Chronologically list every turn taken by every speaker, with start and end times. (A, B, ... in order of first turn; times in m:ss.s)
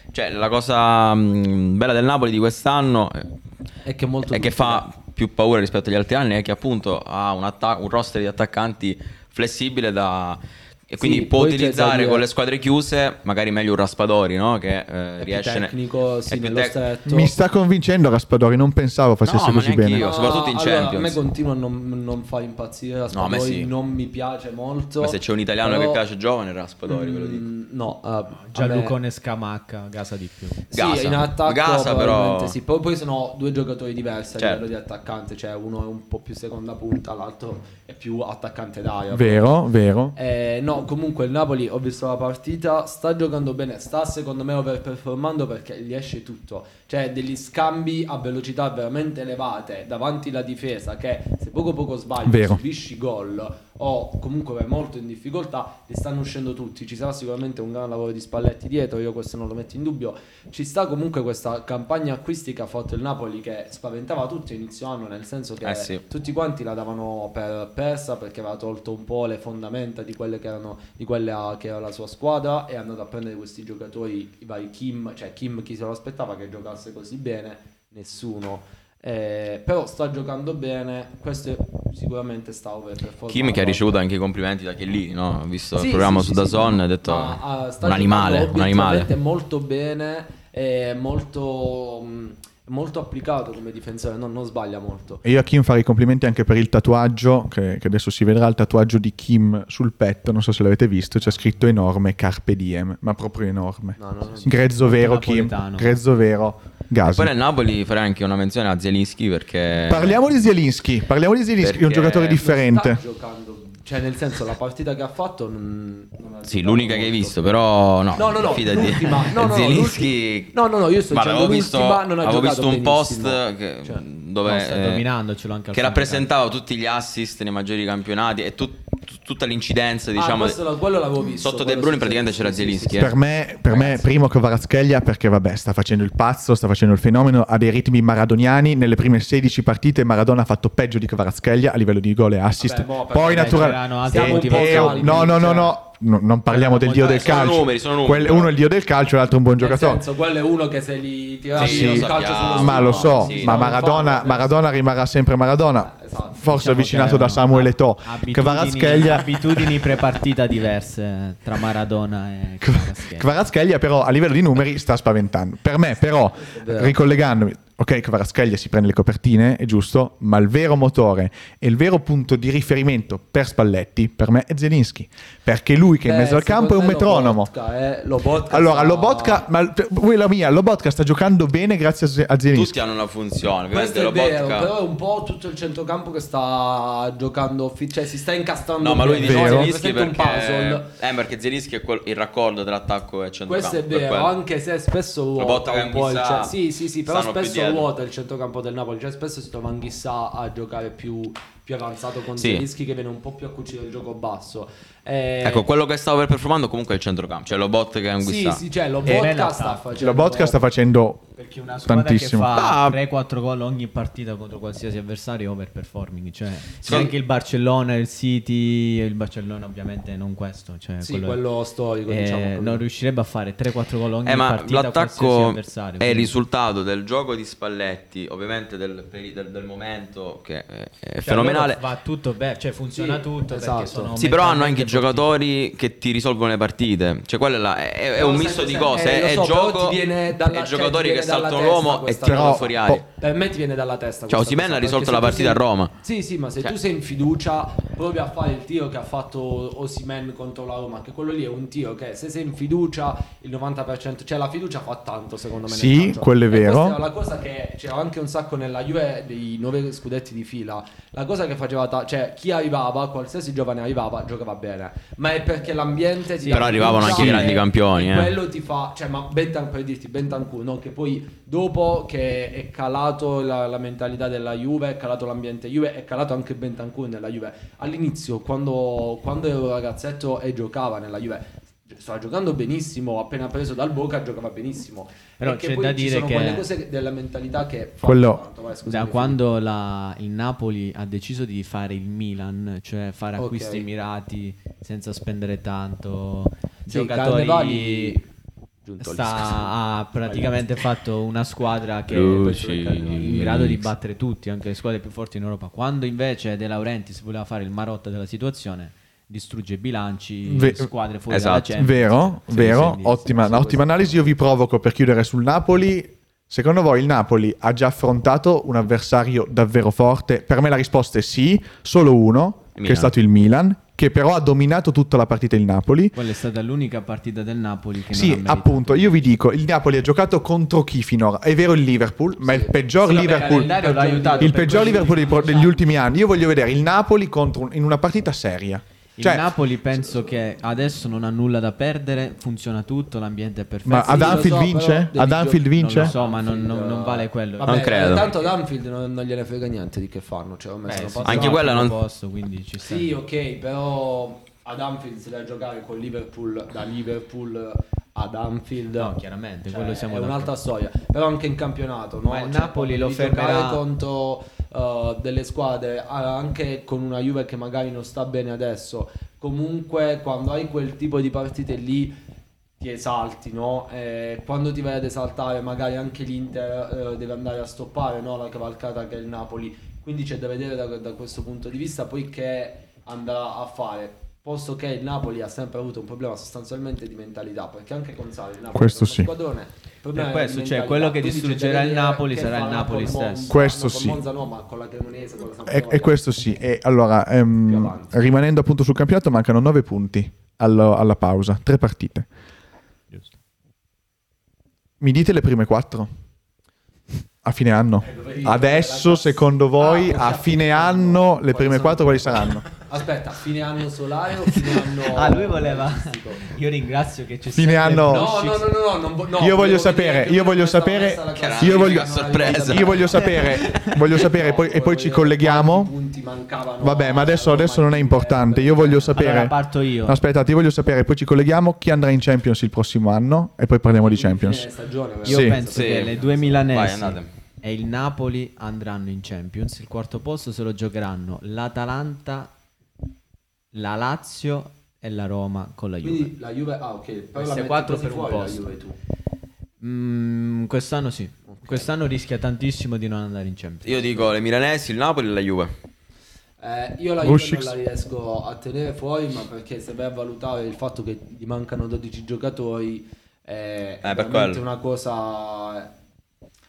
0:00.1-0:03.3 A
0:03.8-0:04.8 B
0:04.3-0:15.7 A
0:11.0-0:12.2 B
0:15.2-0:17.4 B
0:16.3-0:16.8 A
0:17.1-0:20.0 C
0:19.2-0:21.2 A
0:20.0-0:26.0 B
0:23.1-0:23.7 A
0:25.0-0:27.4 A
0:26.9-0:29.0 B
0:28.5-0:30.6 D
0:30.7-0:39.6 B
0:30.7-0:32.6 A
0:34.4-0:34.6 A
0:39.1-0:40.1 C
0:40.1-1:24.0 B
0:52.2-0:52.6 C
1:05.6-1:06.0 A
1:23.3-1:29.1 A
1:25.8-1:35.2 B
1:35.2-1:47.3 C
1:44.0-1:44.6 B
1:44.8-1:45.9 D
1:47.0-1:50.2 A
1:49.9-1:53.0 C
1:51.6-1:52.4 A
1:52.3-1:57.6 B
1:56.4-2:00.5 A
1:58.1-2:04.0 B
2:01.1-2:05.0 A
2:04.4-2:06.2 D
2:05.7-2:10.6 A
2:10.2-2:13.2 B
2:11.3-2:13.1 A
2:13.0-2:30.0 C
2:13.7-2:14.0 B
2:22.6-2:25.7 B
2:23.2-2:25.7 D
2:26.6-2:27.2 D
2:26.9-2:28.5 A
2:29.6-2:34.6 B
2:31.5-2:33.7 A
2:31.6-2:39.8 C
2:35.8-2:36.5 B
2:36.5-2:43.3 D
2:42.6-2:57.5 C
2:46.5-2:46.9 B
2:56.0-2:59.4 B
2:58.5-3:02.7 C
3:02.5-3:04.7 A
3:03.7-3:10.9 B
3:08.8-3:14.3 A
3:09.2-3:09.7 C
3:13.5-3:25.6 B
3:15.4-3:16.5 A
3:17.0-3:17.9 A
3:22.4-3:22.6 A
3:25.4-3:28.6 A
3:28.2-3:30.6 B
3:29.0-3:29.9 D
3:29.0-3:29.3 C
3:29.9-3:31.3 C
3:31.4-3:41.4 D
3:31.8-3:32.5 C
3:32.5-3:33.0 A
3:36.8-3:37.1 A
3:41.0-3:42.8 B
3:42.1-3:46.3 D
3:44.2-3:51.8 A
3:51.2-3:55.3 D
3:52.9-3:54.1 B
3:54.2-4:03.0 A
3:58.1-4:49.4 B
4:02.2-4:03.0 C
4:04.3-4:05.9 A
4:15.7-4:17.0 C
4:26.4-4:27.5 D
4:26.5-4:28.4 A
4:45.4-4:46.6 D
4:48.0-4:48.4 C
4:48.8-4:58.2 D
4:53.4-4:53.9 B
4:56.9-4:58.2 B
4:58.8-5:00.6 B
4:59.0-5:13.9 D
5:02.1-5:03.9 A
5:10.5-5:10.9 C
5:11.3-5:11.7 A
5:11.8-5:26.2 C
5:22.8-5:23.1 A
5:26.1-5:29.2 D
5:28.1-5:33.7 C
5:32.4-5:35.8 B
5:33.1-5:35.7 D
5:34.4-5:39.5 C
5:39.2-5:44.6 D
5:43.8-5:46.1 C
5:44.0-5:51.6 B
5:45.7-5:47.9 D
5:47.6-5:48.4 A
5:50.8-5:53.1 D
5:51.2-5:52.0 A
5:52.8-5:59.2 B
5:59.0-6:00.5 D
5:59.7-6:12.2 B
6:02.2-6:03.8 D
6:12.8-6:36.1 B
6:28.7-6:29.3 C
6:30.1-6:33.5 D
6:33.5-6:34.2 C
6:35.7-6:42.2 C
6:37.6-6:38.2 B
6:45.0-6:46.1 C
6:47.4-6:52.6 C
6:48.0-6:56.5 B
6:54.7-6:58.7 D
6:57.5-6:58.3 C
6:58.0-7:09.3 B
6:59.4-7:05.9 C
7:01.3-7:03.2 A
7:03.2-7:04.0 D
7:06.8-7:14.7 C
7:09.1-7:10.2 D
7:14.0-7:16.7 B
7:15.2-7:22.5 D
7:15.2-7:15.6 C
7:15.7-7:17.3 A
7:23.7-7:26.3 D
7:26.0-7:29.0 B
7:27.3-7:28.7 D
7:29.8-7:34.3 D
7:31.5-7:31.9 B
7:33.8-7:35.7 A
7:36.6-7:45.9 B
7:37.2-7:37.7 C
7:44.0-7:44.6 A